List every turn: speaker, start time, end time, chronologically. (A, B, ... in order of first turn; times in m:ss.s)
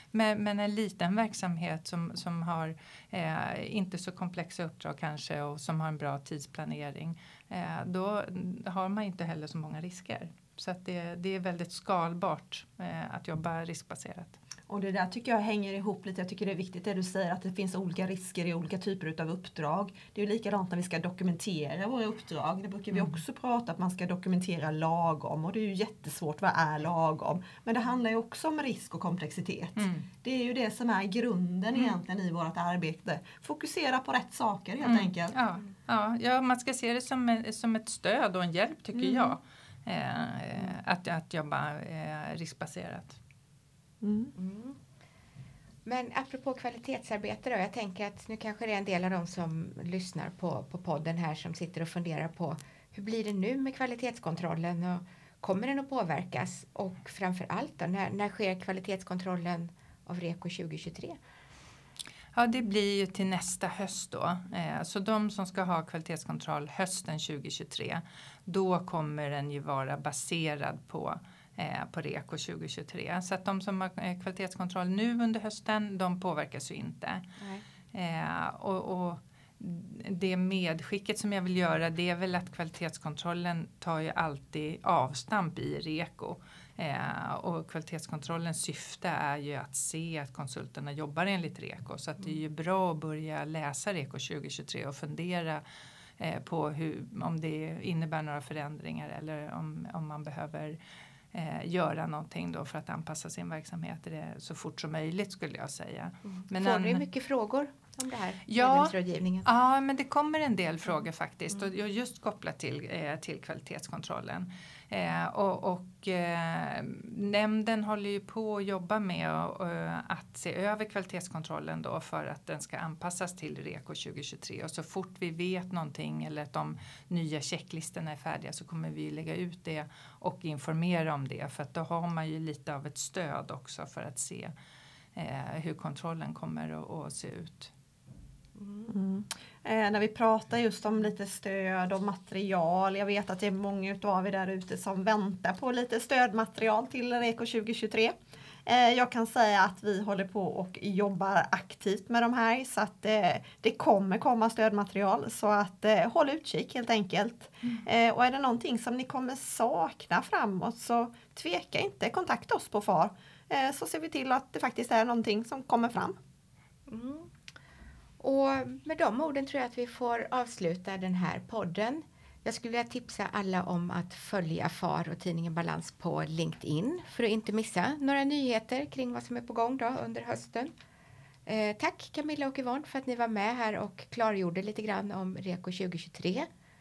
0:00.1-0:14.4 A
0:14.7-0:35.3 B
0:22.9-0:23.2 A
0:29.8-0:30.0 A
0:34.8-0:43.2 A
0:38.9-0:39.4 B
0:44.0-0:44.3 B
0:44.4-0:44.8 C
0:45.8-1:01.2 C
1:02.3-1:17.2 A
1:17.9-1:35.6 A
1:36.2-1:40.8 A
1:41.3-1:47.0 A
1:46.2-1:49.4 C
1:48.5-2:14.5 A
2:15.1-2:17.7 A
2:18.6-2:18.9 C
2:18.9-2:28.1 B
2:28.6-2:46.2 B
2:46.9-2:47.3 C
2:48.2-3:00.7 C
3:01.4-3:06.5 C